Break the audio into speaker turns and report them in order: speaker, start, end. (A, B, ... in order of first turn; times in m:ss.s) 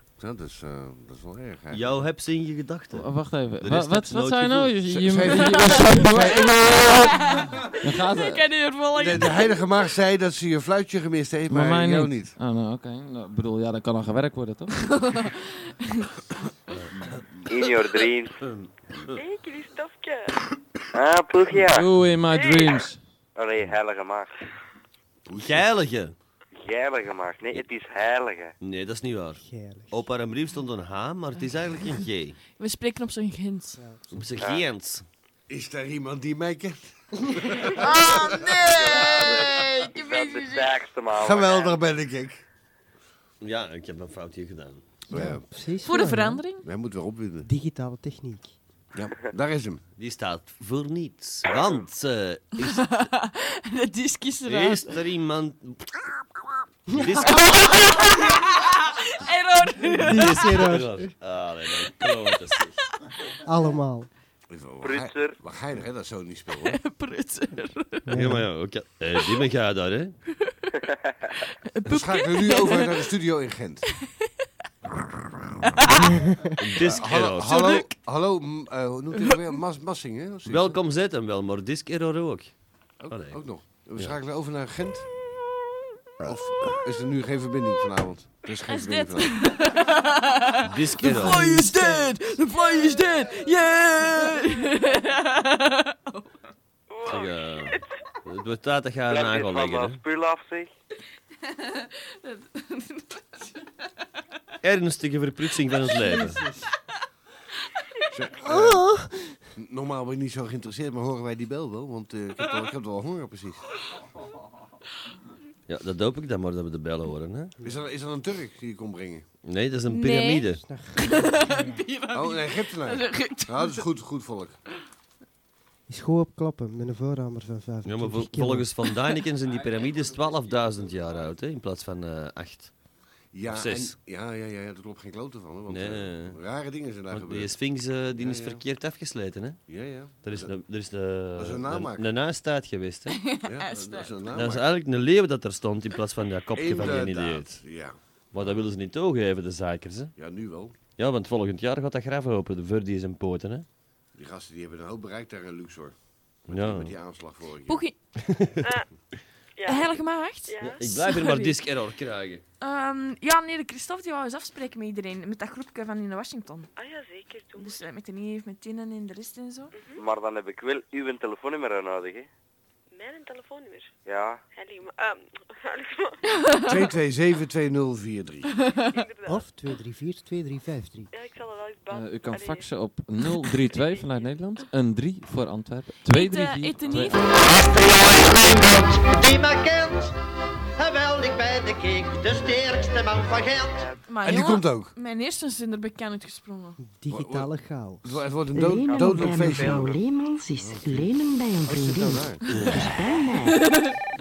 0:00.2-0:01.9 A
0:01.7-0:04.8 B
0:03.0-0:06.4 C
0:04.9-0:07.1 A
0:05.3-0:09.7 D
0:07.8-0:08.4 C
0:09.0-0:12.4 A
0:11.5-0:14.9 C
0:14.9-0:16.0 D
0:16.7-0:17.2 B
0:17.5-0:18.4 E
0:19.1-0:20.4 F
0:20.9-0:21.9 E
0:21.7-0:23.0 C
0:22.3-0:22.9 F
0:23.4-0:24.3 E
0:25.3-0:25.6 A
0:25.4-0:26.2 B
0:26.6-0:28.5 E
0:28.6-0:32.4 B
0:29.4-0:30.0 G
0:32.6-0:33.8 D
0:33.8-0:34.0 G
0:34.1-0:35.0 B
0:35.5-0:39.0 A
0:37.8-0:40.7 D
0:38.8-0:41.8 E
0:41.2-0:42.4 A
0:43.4-0:44.9 B
0:45.1-0:45.4 A
0:45.1-0:46.4 G
0:45.8-0:46.6 D
0:46.6-0:47.5 A
0:47.4-0:48.6 G
0:48.9-0:49.8 A
0:50.0-0:52.9 B
0:52.7-0:54.9 D
0:54.5-0:56.2 B
0:56.9-0:58.0 B
0:56.9-0:57.2 G
0:57.4-1:00.6 D
1:00.0-1:01.1 G
1:00.0-1:02.8 B
1:03.4-1:04.1 G
1:04.5-1:06.8 A
1:04.8-1:05.4 E
1:06.6-1:08.1 D
1:08.1-1:08.5 G
1:08.1-1:10.2 B
1:11.6-1:13.0 D
1:11.9-1:13.8 A
1:15.8-1:16.1 D
1:16.6-1:17.8 B
1:16.8-1:20.8 A
1:19.2-1:19.6 D
1:20.5-1:22.5 B
1:23.0-1:25.1 A
1:23.1-1:24.2 B
1:26.2-1:29.4 A
1:28.7-1:36.4 D
1:30.6-1:31.5 B
1:36.9-1:37.9 F
1:37.1-1:40.0 B
1:39.1-1:40.7 E
1:41.5-1:43.5 D
1:44.6-1:46.4 B
1:45.9-1:46.3 D
1:48.1-1:48.9 A
1:48.5-1:49.3 G
1:49.6-1:53.6 A
1:55.7-1:57.5 B
1:57.6-1:59.3 A
1:59.4-2:00.6 B
1:59.9-2:00.5 D
2:00.6-2:01.8 G
2:01.0-2:03.8 D
2:02.1-2:04.6 A
2:05.9-2:08.7 G
2:07.8-2:12.7 B
2:13.3-2:17.6 A
2:13.5-2:13.9 B
2:15.7-2:16.4 B
2:17.1-2:19.6 B
2:18.2-2:18.6 A
2:19.7-2:20.5 A
2:20.2-2:23.2 B
2:21.4-2:22.1 A
2:23.1-2:24.1 D
2:23.4-2:24.7 A
2:24.3-2:27.6 B
2:26.6-2:28.6 A
2:28.3-2:30.1 B
2:30.2-2:30.7 A
2:31.0-2:33.7 B
2:34.2-2:36.0 A
2:36.5-2:36.9 B
2:36.5-2:37.8 A
2:37.7-2:38.0 D
2:38.3-2:38.5 B
2:38.6-2:38.9 F
2:39.6-2:40.8 F
2:39.7-2:41.6 D
2:40.6-2:42.4 B
2:42.6-2:46.7 D
2:46.8-2:47.8 F
2:47.6-2:49.7 D
2:49.7-2:50.0 F
2:50.0-2:52.3 E
2:52.9-2:53.9 F
2:54.1-2:54.4 E
2:54.5-2:56.2 F
2:56.4-2:56.7 D
2:56.7-2:58.5 A
2:58.8-2:59.5 F
2:59.3-3:01.1 G
3:01.1-3:02.7 F
3:01.9-3:07.2 C
3:03.3-3:04.4 F
3:06.1-3:07.7 D
3:07.5-3:10.1 H
3:10.8-3:13.9 H
3:14.1-3:16.8 D
3:14.2-3:14.9 A
3:16.8-3:18.2 G
3:17.1-3:17.5 A
3:18.0-3:20.0 A
3:18.5-3:23.7 I
3:19.2-3:19.8 E
3:20.6-3:21.1 A
3:21.6-3:22.4 A
3:23.7-3:23.9 D